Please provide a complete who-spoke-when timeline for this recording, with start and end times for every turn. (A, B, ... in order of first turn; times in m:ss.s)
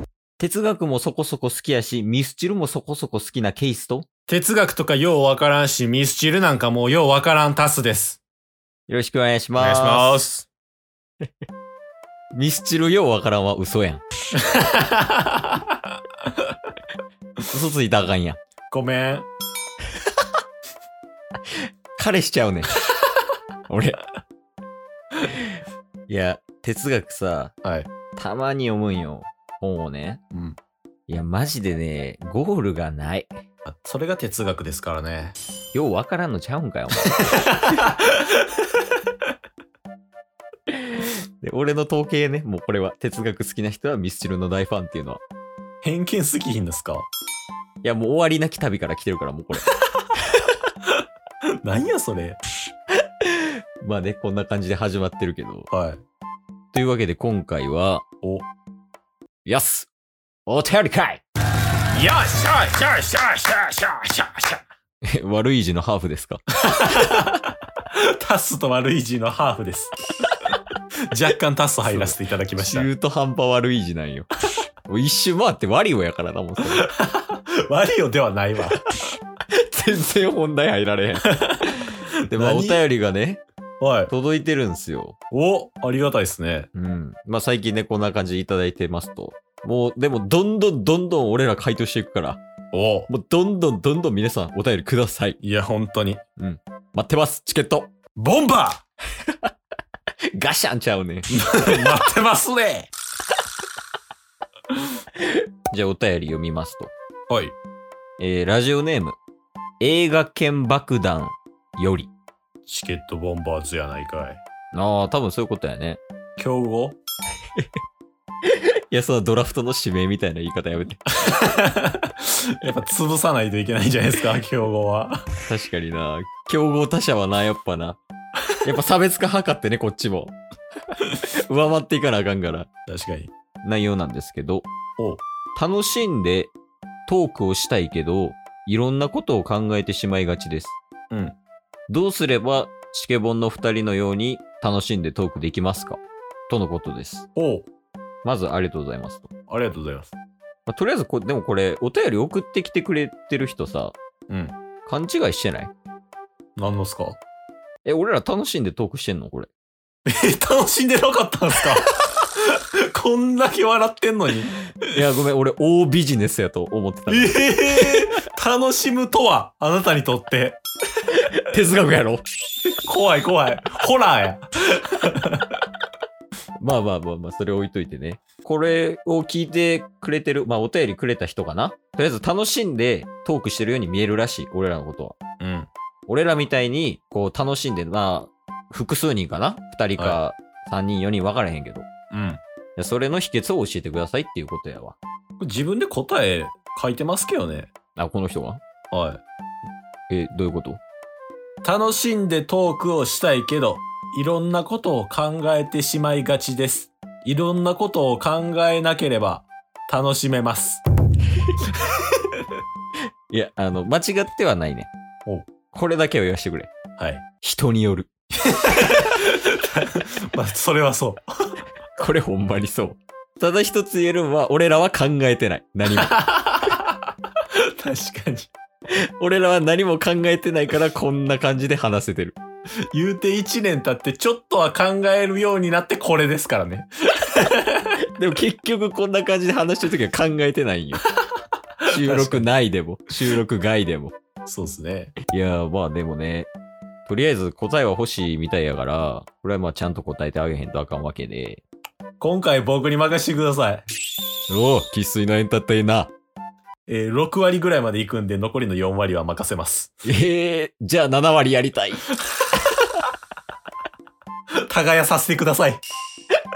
0:00.4-0:04.1 A
0:04.3-0:08.2 B
0:08.9-0:10.2 A
0:09.6-0:10.5 B
0:12.3-0:14.0 A
0:14.3-0:15.7 B
0:17.5-0:18.4 A
0:18.7-0:19.3 B
0:21.6-0:22.7 A
0:23.7-0:24.0 A
0:25.2-0:27.5 A
0:27.6-0:27.9 B
0:28.2-0:30.2 A
0:30.3-0:30.6 B
0:31.1-0:33.4 A
0:33.6-0:35.4 B
0:35.7-0:37.3 A
0:37.2-0:38.4 B
0:40.7-0:45.2 A
0:45.8-0:47.0 B
0:47.8-0:49.7 A
0:51.6-0:52.4 B
0:53.2-0:55.7 A
0:55.7-0:56.0 B
0:56.7-0:58.0 A
0:59.4-0:59.9 A
1:00.4-1:01.2 A
1:01.9-1:04.6 B
1:05.1-1:06.4 A
1:06.6-1:09.9 B
1:11.1-1:12.9 B
1:11.8-1:14.3 A
1:14.9-1:16.8 A
1:16.8-1:18.8 B
1:19.5-1:23.4 A
1:21.2-1:21.7 B
1:22.3-1:22.8 B
1:23.8-1:24.1 B
1:24.1-1:25.2 A
1:25.3-1:26.7 B
1:26.7-1:32.4 A
1:32.7-1:33.1 B
1:33.1-1:35.4 A
1:35.4-1:36.2 B
1:36.4-1:37.9 A
1:38.2-1:38.8 B
1:40.3-1:41.8 A
1:41.3-1:42.9 B
1:45.2-1:46.9 A
1:47.3-1:47.5 B
1:48.2-1:49.2 A
1:49.8-1:52.1 A
1:52.7-1:54.4 B
1:54.7-1:56.0 A
1:56.4-1:57.0 B
1:58.4-2:01.0 A
2:01.2-2:05.3 B
2:05.4-2:08.0 A
2:08.6-2:10.4 A
2:11.4-2:12.7 A
2:12.9-2:13.3 B
2:13.6-2:14.7 A
2:15.0-2:15.2 B
2:15.6-2:16.5 A
2:17.1-2:20.8 A
2:21.1-2:21.4 B
2:21.9-2:27.3 A
2:27.4-2:27.7 B
2:28.2-2:29.3 A
2:29.5-2:30.1 B
2:30.7-2:33.9 A
2:34.3-2:34.5 B
2:34.8-2:35.7 A
2:36.6-2:37.2 B
2:37.8-2:39.5 A
2:40.0-2:44.5 B
2:44.9-2:48.1 A
2:47.1-2:50.6 B
2:51.1-2:52.2 A
2:52.7-2:55.6 B
2:56.6-3:05.2 A
3:05.4-3:05.7 B
3:06.1-3:11.8 A
3:12.1-3:12.4 B
3:12.8-3:15.0 A
3:15.4-3:17.7 B
3:18.0-3:18.6 A
3:18.9-3:19.2 B
3:20.1-3:20.8 A
3:21.6-3:30.8 B
3:33.3-3:34.9 A
3:35.7-3:36.7 A
3:37.0-3:37.2 B
3:37.4-3:38.1 A
3:38.4-3:41.5 B
3:42.0-3:46.1 A
3:45.9-3:47.0 B
3:47.8-3:48.5 B
3:48.9-3:52.4 A
3:52.9-3:57.9 B
3:58.2-4:01.0 A
4:01.8-4:02.5 B
4:01.8-4:04.1 A
4:04.4-4:05.1 B
4:05.3-4:06.5 A
4:07.0-4:11.6 A
4:12.2-4:13.8 B
4:14.5-4:16.1 A
4:16.9-4:20.0 B
4:20.0-4:22.1 A
4:24.7-4:25.8 B